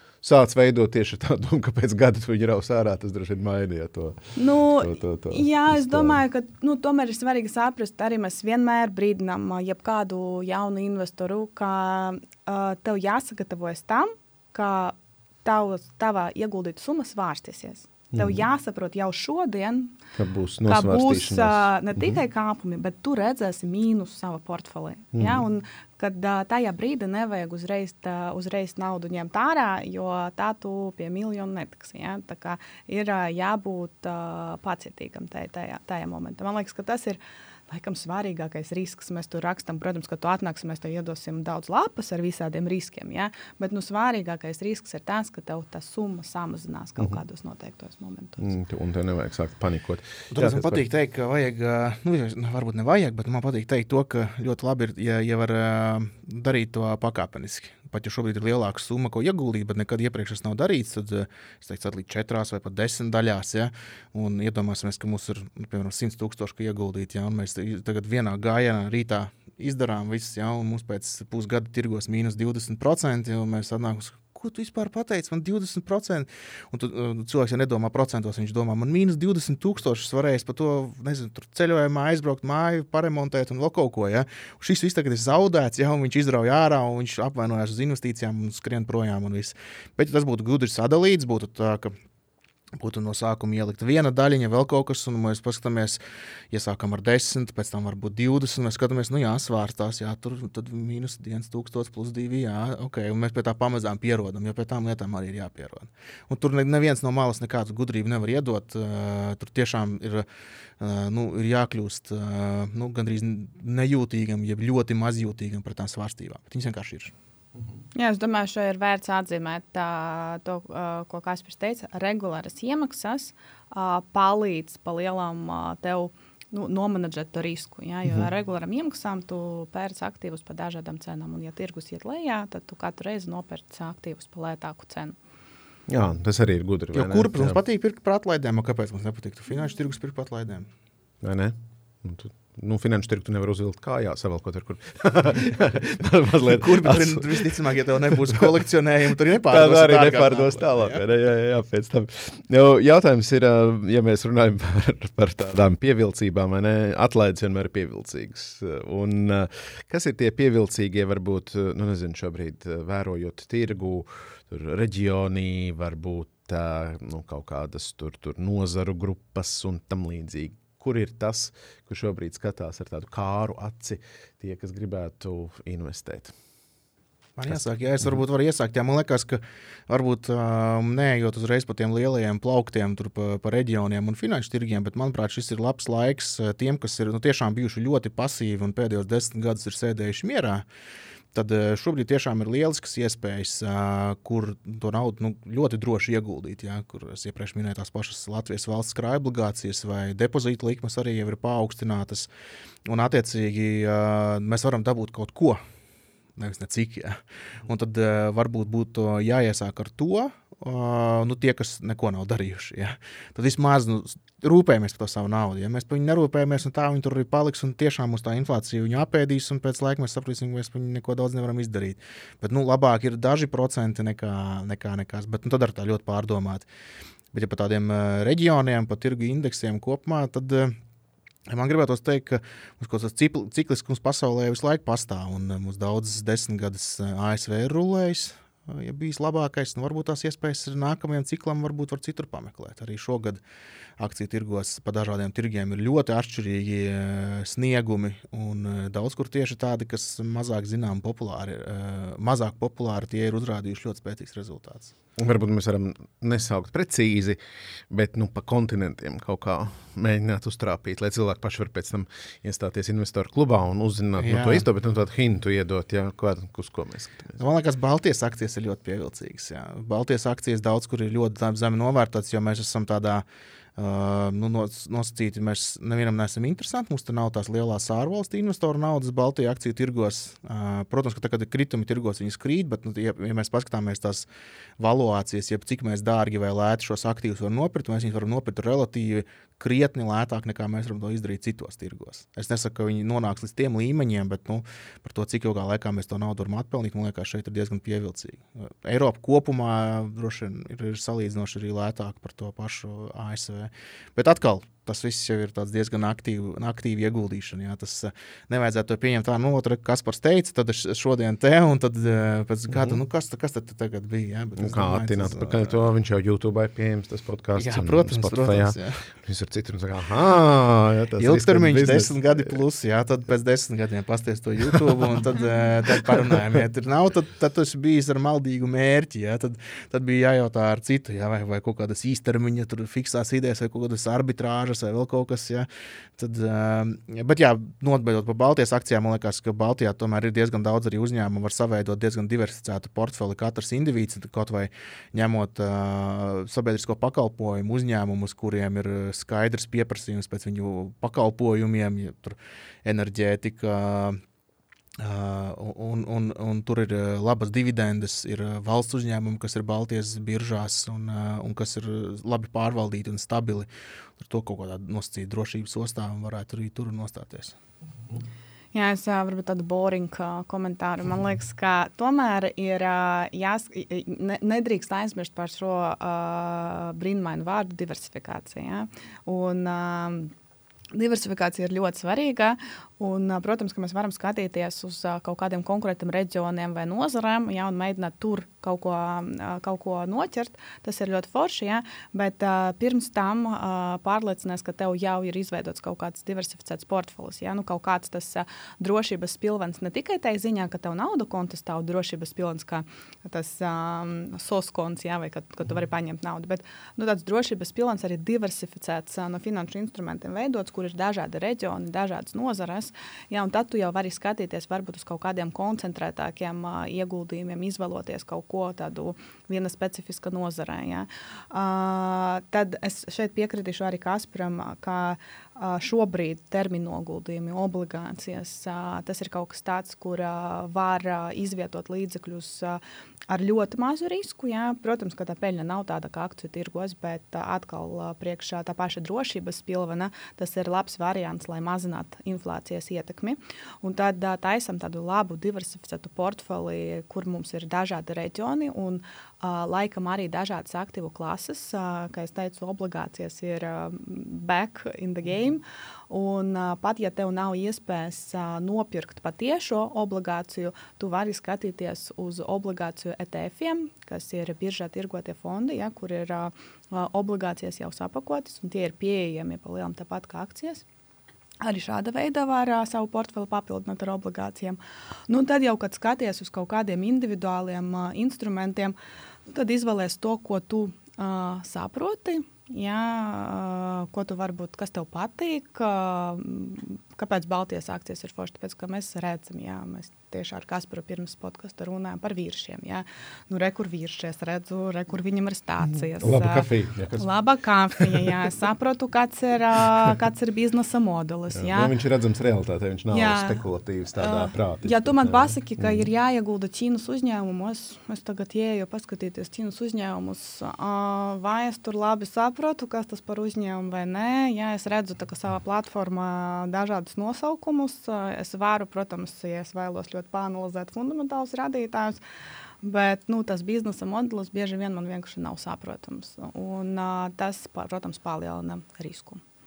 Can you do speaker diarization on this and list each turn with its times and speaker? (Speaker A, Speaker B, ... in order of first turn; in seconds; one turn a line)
Speaker A: 0.2-6.2
Speaker B: 4.4-20.0
Speaker A: 18.1-18.4
Speaker A: 20.1-22.2
Speaker B: 20.7-48.5
Speaker A: 25.1-25.4
Speaker A: 48.4-50.8
Speaker C: 50.3-92.0
Speaker C: 92.8-96.0
Speaker C: 96.5-110.3
Speaker C: 110.8-117.1
Speaker B: 118.0-135.2
Speaker A: 135.9-137.6
Speaker C: 136.9-140.7
Speaker A: 141.2-148.5
Speaker C: 146.5-151.0
Speaker A: 149.4-176.3
Speaker C: 177.4-190.6
Speaker C: 191.3-202.3
Speaker C: 202.9-205.6
Speaker C: 206.4-226.7
Speaker C: 227.3-230.8
Speaker C: 231.5-243.4
Speaker C: 244.0-254.9
Speaker A: 255.2-257.4
Speaker A: 257.9-267.4
Speaker C: 264.2-264.7
Speaker C: 267.4-273.2
Speaker C: 273.8-284.3
Speaker C: 284.8-315.7
Speaker A: 312.7-313.0
Speaker A: 314.6-322.6
Speaker C: 317.6-319.0
Speaker C: 321.2-354.2
Speaker A: 326.1-326.6
Speaker C: 355.0-363.7
Speaker C: 364.2-367.6
Speaker B: 368.7-380.3
Speaker B: 380.9-470.8
Speaker B: 471.6-479.0
Speaker B: 479.5-501.9
Speaker A: 496.2-497.3
Speaker A: 498.0-498.3
Speaker A: 501.5-506.1
Speaker B: 503.1-503.6
Speaker B: 504.1-522.2
Speaker B: 522.8-529.4